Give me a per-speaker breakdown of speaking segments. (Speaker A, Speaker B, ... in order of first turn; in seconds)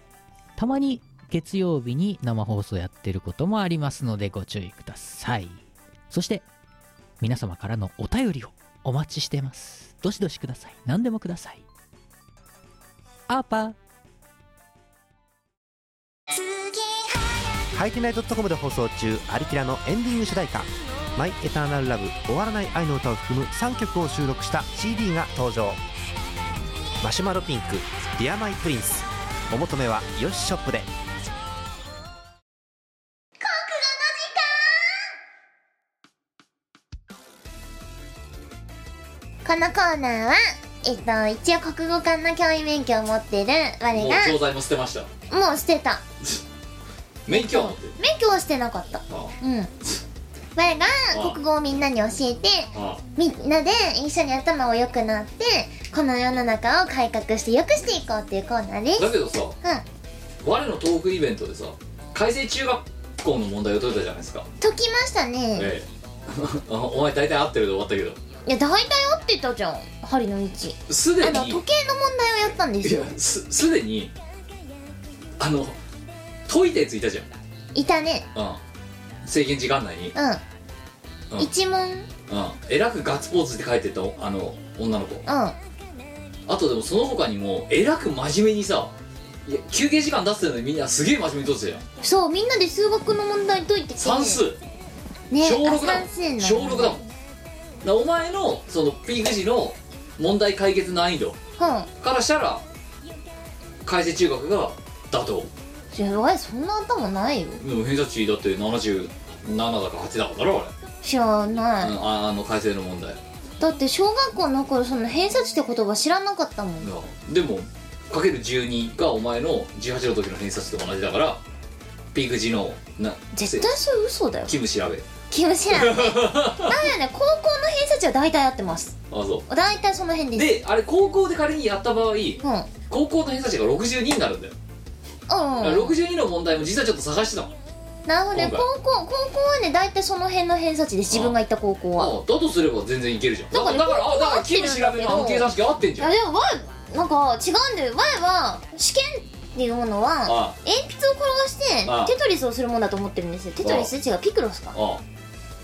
Speaker A: 0.6-6.5, 7.2-11.6, 13.3-13.8
Speaker B: 16.3-17.2, 33.4-35.0, 39.5-44.4, 45.3-46.0, 47.3-49.7, 50.6-59.1, 64.6-65.7, 68.5-73.1, 77.7-78.3, 80.2-80.4, 81.4-82.1, 85.3-85.6, 92.0-94.4, 95.3-97.0, 101.6-101.9, 105.9-107.6, 111.0-112.0, 113.6-116.9, 123.3-124.5, 125.3-129.0, 129.5-130.5, 132.4-132.7, 135.3-135.9, 138.1-142.2, 143.5-154.8
Speaker C: 17.7-25.8, 27.0-30.9
Speaker D: 43.9-45.1, 47.3-48.0, 49.1-49.3, 51.1-51.4, 52.7-53.0, 59.0-59.6, 60.4-64.5, 65.6-68.2, 70.9-71.6, 72.8-74.1, 75.4-75.8, 76.5-77.3, 78.3-78.6, 79.2-80.1, 82.3-85.2, 86.5-88.9, 89.5-91.8, 94.0-94.6, 95.4-97.0, 97.8-101.4, 102.0-102.6, 103.8-105.5, 107.6-110.7, 111.8-113.2, 116.8-121.4, 122.1-123.8, 124.5-125.1, 125.7-126.8, 129.1-129.4, 130.3-134.5, 135.6-137.5, 138.3-138.7, 141.1-141.4, 142.0-146.1, 150.2-150.6, 151.8-152.1, 153.6-153.9, 154.7-155.0